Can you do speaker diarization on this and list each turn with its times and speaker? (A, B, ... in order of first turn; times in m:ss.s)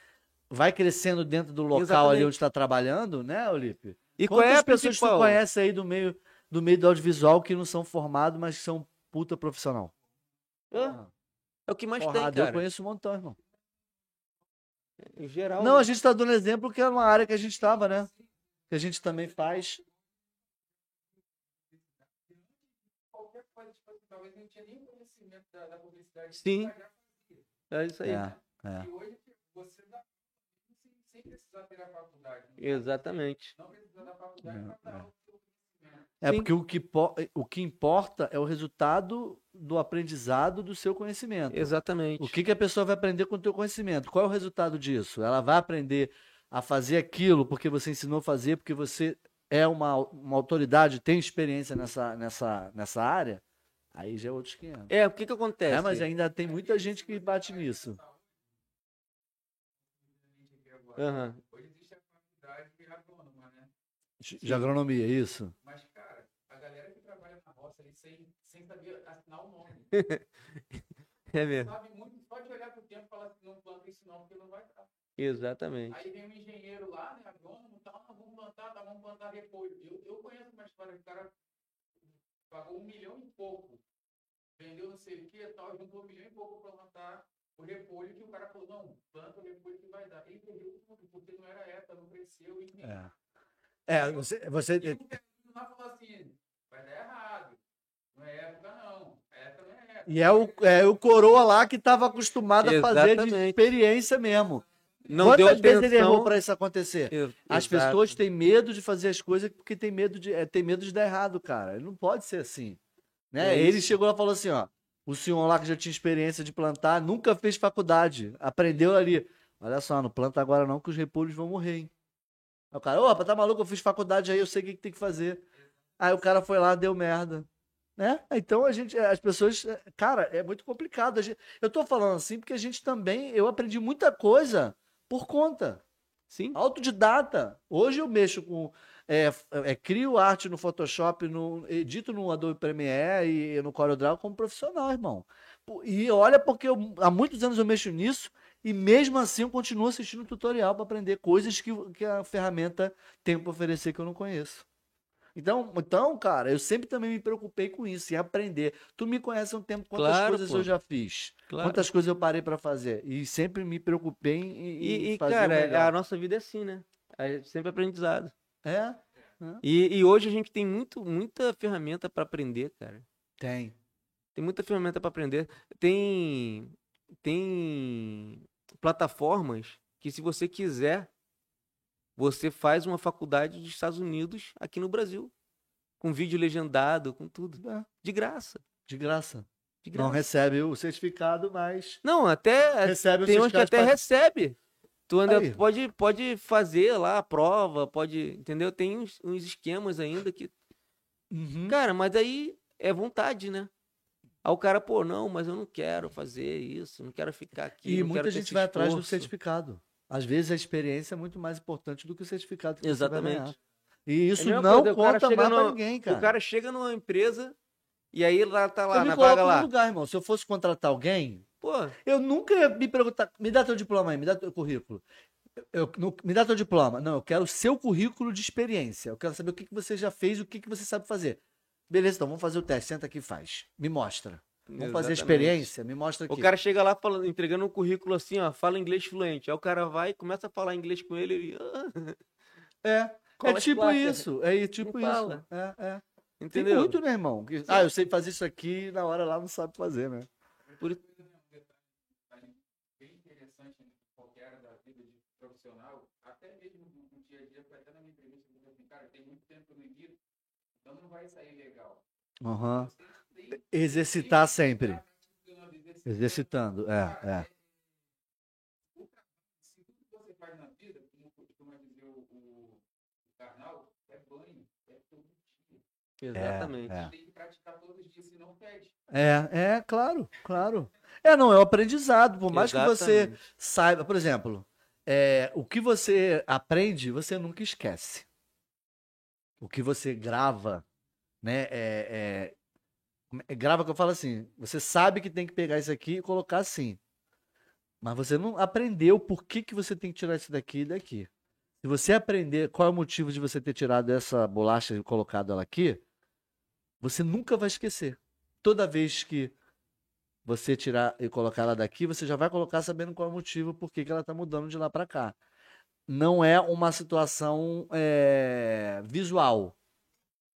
0:00.5-0:09.9 A
0:01.7-0:02.3 B
0:04.2-0:05.4 B
0:10.7-0:11.0 B
0:10.7-0:11.1 A
0:11.7-0:12.6 B
0:12.0-0:13.4 A
0:15.0-0:15.9 B
0:15.6-0:18.1 A
0:18.7-0:19.8 A
0:19.4-0:19.8 C
0:21.7-0:27.4 C
0:26.4-0:26.7 B
0:27.7-0:28.3 B
0:28.0-0:28.9 A
0:28.7-0:36.1 C
0:32.6-0:33.5 B
0:34.4-0:35.0 A
0:36.2-0:53.4 A
0:41.5-0:42.4 B
0:53.9-0:54.9 A
0:54.9-0:56.1 B
0:55.7-0:58.0 A
0:56.4-0:58.2 C
1:00.2-1:03.7 C
1:01.0-1:01.4 B
1:04.2-1:05.5 A
1:05.6-1:09.9 C
1:09.9-1:10.2 B
1:11.3-1:11.7 B
1:11.6-1:14.9 C
1:15.2-1:16.0 B
1:15.9-1:21.3 C
1:22.5-1:23.8 C
1:24.6-1:33.0 C
1:32.8-1:33.1 A
1:33.9-1:35.0 A
1:34.8-1:37.6 C
1:38.1-1:41.3 C
1:40.1-1:44.6 A
1:42.6-1:43.7 B
1:45.1-1:46.3 B
1:45.2-1:52.8 A
1:47.1-1:48.2 B
1:53.3-2:01.9 A
1:53.4-1:53.9 B
2:02.7-2:05.4 A
2:06.0-2:15.8 A
2:16.3-2:16.6 B
2:16.5-2:34.6 A
2:35.3-2:45.9 A
2:39.9-2:40.7 B
2:41.5-2:41.8 B
2:44.8-2:48.3 B
2:48.6-2:49.6 A
2:49.6-2:53.0 B
2:53.4-2:53.7 A
2:54.3-3:01.1 B
3:02.2-3:05.3 B
3:06.0-3:08.6 B
3:07.6-3:07.9 A
3:08.9-3:12.0 A
3:09.8-3:10.2 B
3:12.0-3:14.6 B
3:12.8-3:14.0 A
3:15.1-3:20.5 B
3:15.3-3:15.6 A
3:21.3-3:21.7 A
3:21.7-3:23.7 B
3:24.4-3:29.3 B
3:27.8-3:33.6 A
3:32.8-3:33.5 B
3:34.1-3:36.3 A
3:34.4-3:37.5 B
3:38.1-3:39.7 B
3:38.9-3:41.4 A
3:41.6-3:42.0 B
3:42.0-3:45.0 A
3:45.6-3:56.5 A
3:54.7-3:55.7 B
3:56.3-4:02.2 B
4:02.8-4:06.0 A
4:03.4-4:04.3 B
4:04.8-4:05.4 B
4:06.4-4:07.0 B
4:06.5-4:10.3 A
4:10.8-4:20.2 C
4:20.8-4:22.0 C
4:22.4-4:22.9 A
4:22.7-4:27.5 C
4:23.5-4:25.0 A
4:26.0-4:27.5 A
4:28.9-4:32.8 C
4:33.3-4:35.8 C
4:36.2-4:37.0 B
4:36.3-4:37.1 A
4:36.9-4:38.9 C
4:39.1-4:48.3 A
4:42.5-4:43.4 B
4:49.6-4:50.8 A
4:51.4-4:52.6 A
4:53.3-4:57.0 A
4:58.0-5:01.3 A
5:01.8-5:06.0 A
5:07.0-5:09.5 A
5:10.4-5:15.4 A
5:16.1-5:19.7 A